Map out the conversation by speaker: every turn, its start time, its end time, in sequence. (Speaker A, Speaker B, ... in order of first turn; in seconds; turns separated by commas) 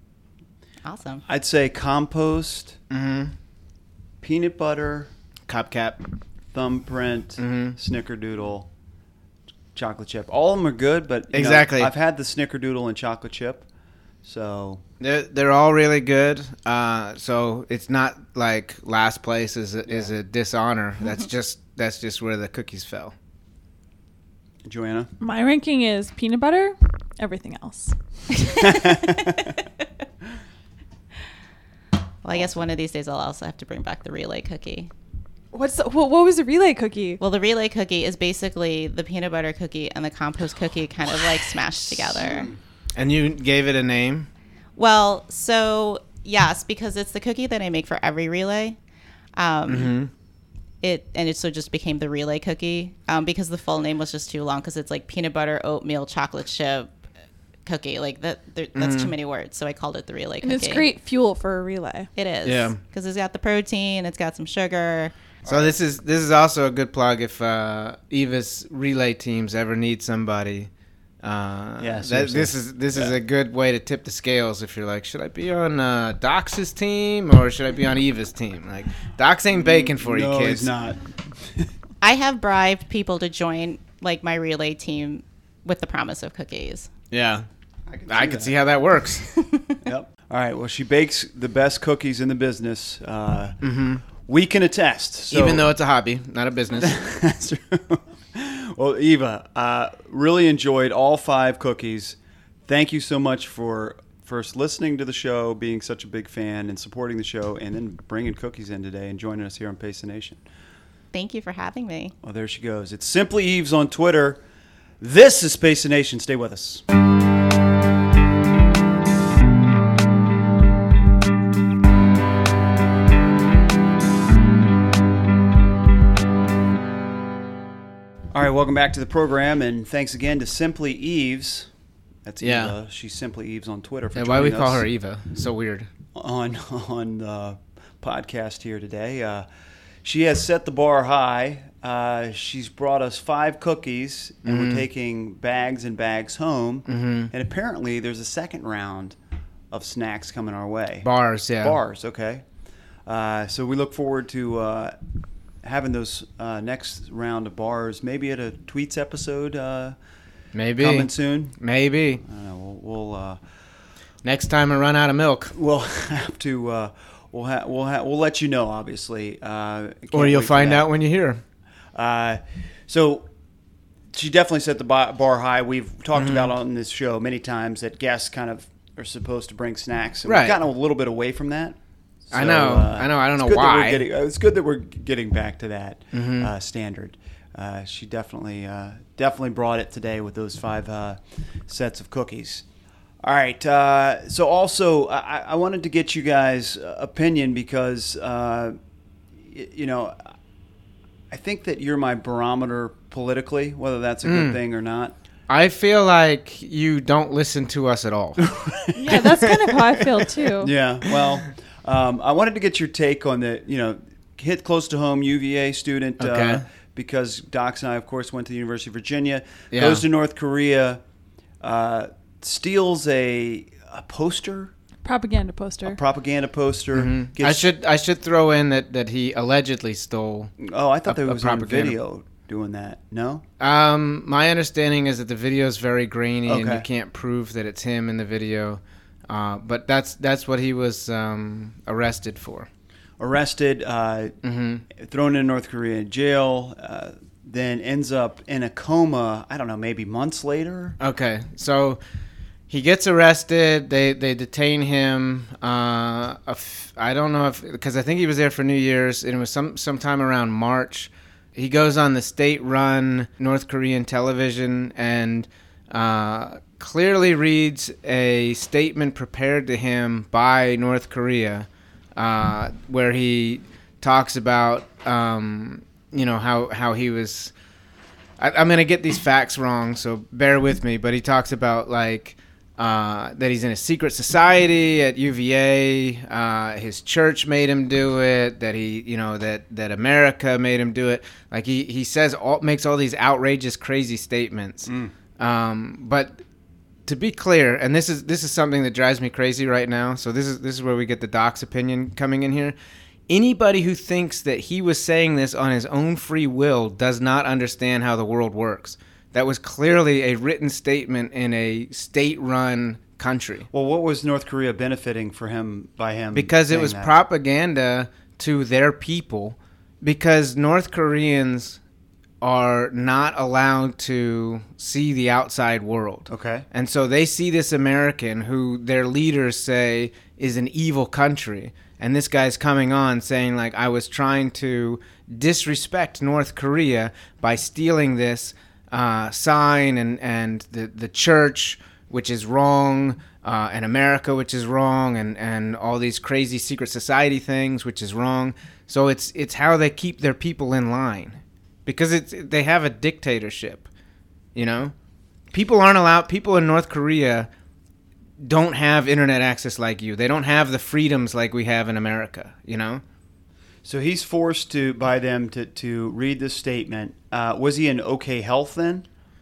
Speaker A: 0.8-1.2, Speaker B: 1.3-2.8, Speaker C: 2.9-3.3, Speaker B: 4.2-5.1, Speaker C: 5.5-6.0, Speaker B: 6.5-8.7, Speaker C: 7.4-7.8, Speaker B: 9.8-13.7, Speaker C: 11.3-11.9, Speaker B: 14.2-14.8, Speaker C: 15.0-23.1, Speaker B: 24.6-25.1, Speaker D: 25.2-28.9, Speaker B: 28.6-29.3, Speaker A: 28.7-28.9, Speaker A: 32.2-34.9, Speaker D: 35.5-37.2, Speaker A: 37.2-42.5, Speaker B: 42.2-42.6, Speaker C: 43.0-44.3, Speaker A: 44.8-48.8, Speaker A: 49.4-49.9, Speaker C: 49.7-50.1, Speaker A: 50.8-56.9, Speaker A: 57.7-60.9, Speaker C: 58.8-59.1, Speaker D: 60.4-62.1, Speaker A: 62.2-65.1, Speaker C: 62.5-62.8, Speaker B: 65.5-65.8, Speaker C: 65.5-70.7, Speaker C: 71.2-80.7, Speaker B: 71.8-73.2, Speaker B: 79.5-81.7, Speaker A: 82.0-86.9, Speaker C: 87.1-87.5, Speaker B: 87.9-88.5, Speaker C: 88.1-89.3, Speaker A: 89.3-89.8, Speaker B: 89.8-93.6, Speaker C: 93.6-94.0, Speaker B: 94.2-95.7, Speaker C: 95.3-97.0, Speaker B: 96.8-110.4, Speaker A: 111.1-112.1, Speaker B: 112.2-114.4, Speaker B: 115.0-116.8, Speaker B: 128.3-131.7, Speaker B: 132.2-134.9, Speaker C: 132.4-132.7, Speaker C: 134.2-135.9, Speaker B: 136.2-139.5, Speaker B: 140.0-149.2, Speaker C: 144.4-144.8, Speaker C: 146.9-147.3, Speaker B: 149.7-151.1, Speaker C: 151.0-151.8, Speaker B: 151.6-152.4, Speaker B: 153.1-155.0, Speaker B: 155.6-160.0, Speaker C: 160.5-162.2, Speaker B: 160.8-161.6, Speaker B: 162.2-163.4, Speaker C: 164.2-165.5, Speaker B: 165.5-170.9, Speaker C: 170.1-171.4, Speaker B: 171.9-173.3, Speaker B: 174.1-192.7, Speaker C: 176.2-176.5, Speaker C: 180.3-180.6, Speaker C: 182.3-184.0, Speaker C: 186.1-186.5, Speaker B: 193.2-198.8, Speaker B: 199.4-200.3, Speaker B: 201.3-205.2, Speaker C: 204.2-204.6, Speaker C: 205.5-208.6, Speaker B: 208.4-209.2, Speaker D: 208.9-210.7, Speaker C: 209.1-210.2, Speaker B: 210.6-221.0, Speaker C: 216.2-216.6, Speaker C: 219.7-220.1, Speaker B: 221.6-224.7, Speaker D: 225.0-226.0, Speaker B: 225.8-227.7, Speaker C: 226.9-230.5, Speaker B: 230.6-233.4, Speaker C: 231.1-232.0, Speaker C: 233.6-242.7, Speaker B: 236.5-236.9, Speaker B: 243.2-244.3, Speaker C: 244.4-244.8, Speaker B: 244.9-251.0, Speaker C: 251.0-252.0, Speaker C: 252.7-277.5, Speaker C: 278.4-296.4, Speaker B: 294.9-295.1, Speaker C: 297.1-302.8, Speaker C: 303.3-313.7, Speaker B: 313.7-317.1, Speaker C: 316.3-321.8, Speaker C: 322.4-353.9, Speaker B: 326.3-326.6, Speaker C: 354.6-354.9, Speaker C: 355.5-357.5, Speaker C: 358.4-363.0, Speaker B: 363.9-369.1